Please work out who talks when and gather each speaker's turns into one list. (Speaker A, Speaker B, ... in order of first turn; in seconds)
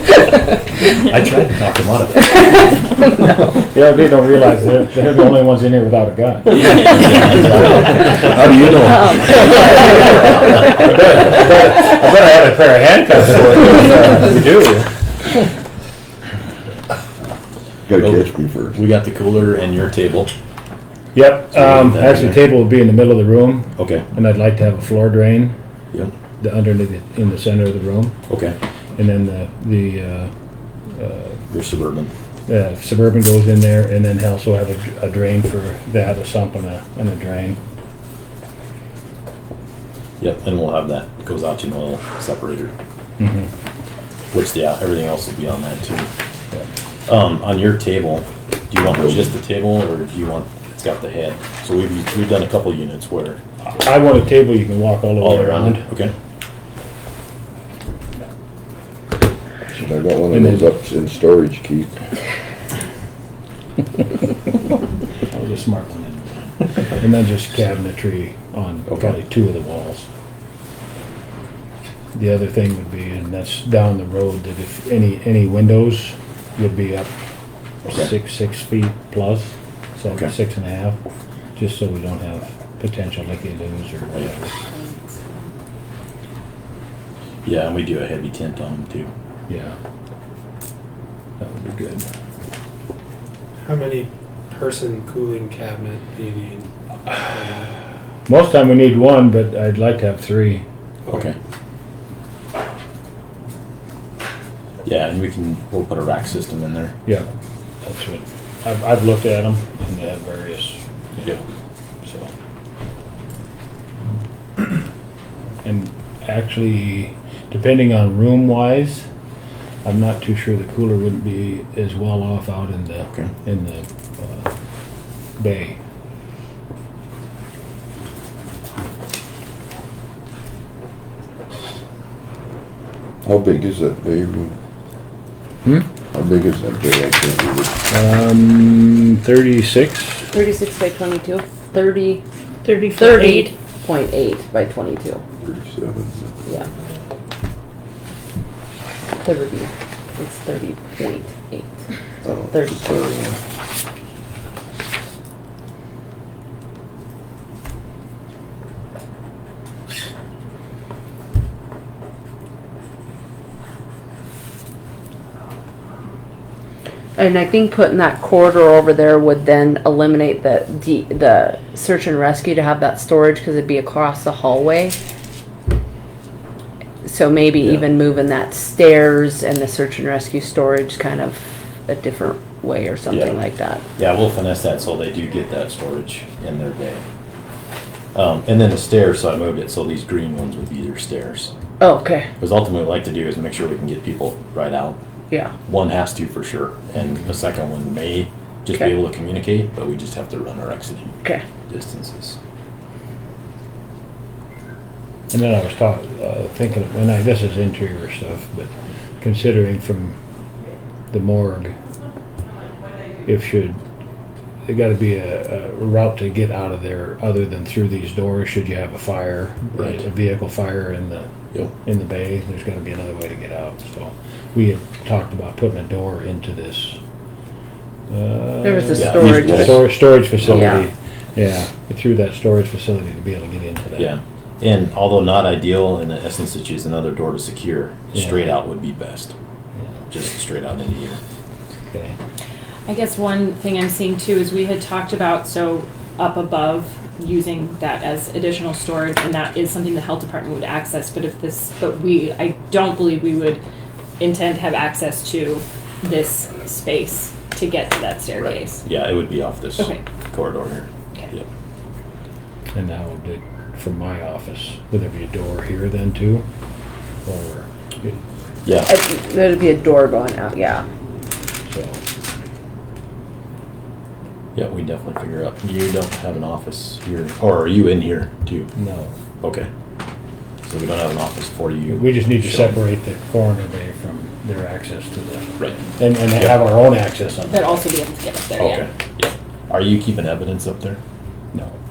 Speaker A: 0.9-2.8, 6.6-8.1, 18.0-20.3, 21.5-22.5, 23.8-24.1, 28.3-28.6, 31.5-32.1, 40.2-42.7, 44.3-46.1, 47.1-53.4, 55.2-56.1, 68.9-69.2, 87.5-89.1, 101.1-101.4, 104.8-107.0, 183.1-183.4, 184.0-187.0, 188.1-191.5, 192.4-195.0, 195.7-201.2, 201.7-202.4, 228.9-229.8, 234.0-239.3, 240.1-241.2, 258.4-261.5, 268.6-268.9, 274.6-278.7, 279.4-279.7, 280.6-282.8, 285.6-286.6, 288.6-291.0
Speaker B: 3.4-8.7, 9.4-14.9, 21.1-25.6, 26.4-28.2, 29.0-30.3, 30.9-31.4, 32.5-37.6, 43.2-43.5, 53.7-55.9, 60.3-60.8, 65.3-66.5, 67.0-70.1, 72.1-77.1, 77.9-81.0, 81.5-84.6, 89.5-89.8, 91.4-92.1, 98.3-100.7, 107.8-110.8, 112.0-112.3, 115.6-119.1, 119.8-124.5, 125.4-125.8, 137.9-140.3, 205.3-210.2, 211.1-211.8, 213.2-213.8, 214.7-221.3, 221.8-227.0, 228.1-234.1, 238.1-238.5, 241.9-242.2, 262.8-266.5, 267.2-268.2, 271.7-272.0, 278.8-279.1, 281.9-287.8, 291.5-291.8
Speaker C: 7.6-9.5, 17.9-18.8, 48.9-49.3, 59.8-62.0, 133.2-134.6, 136.1-137.8, 145.4-146.5, 152.2-153.4
Speaker D: 8.7-10.3, 140.3-142.2, 142.9-145.2, 149.2-151.8, 152.5-152.8, 167.2-175.0, 177.0-183.8, 191.8-192.3, 228.6-229.9, 230.4-230.9, 268.8-270.9
Speaker E: 84.6-85.5, 142.6-143.5, 242.9-253.6, 254.2-258.8, 259.8-260.0, 287.5-288.9
Speaker F: 93.6-97.7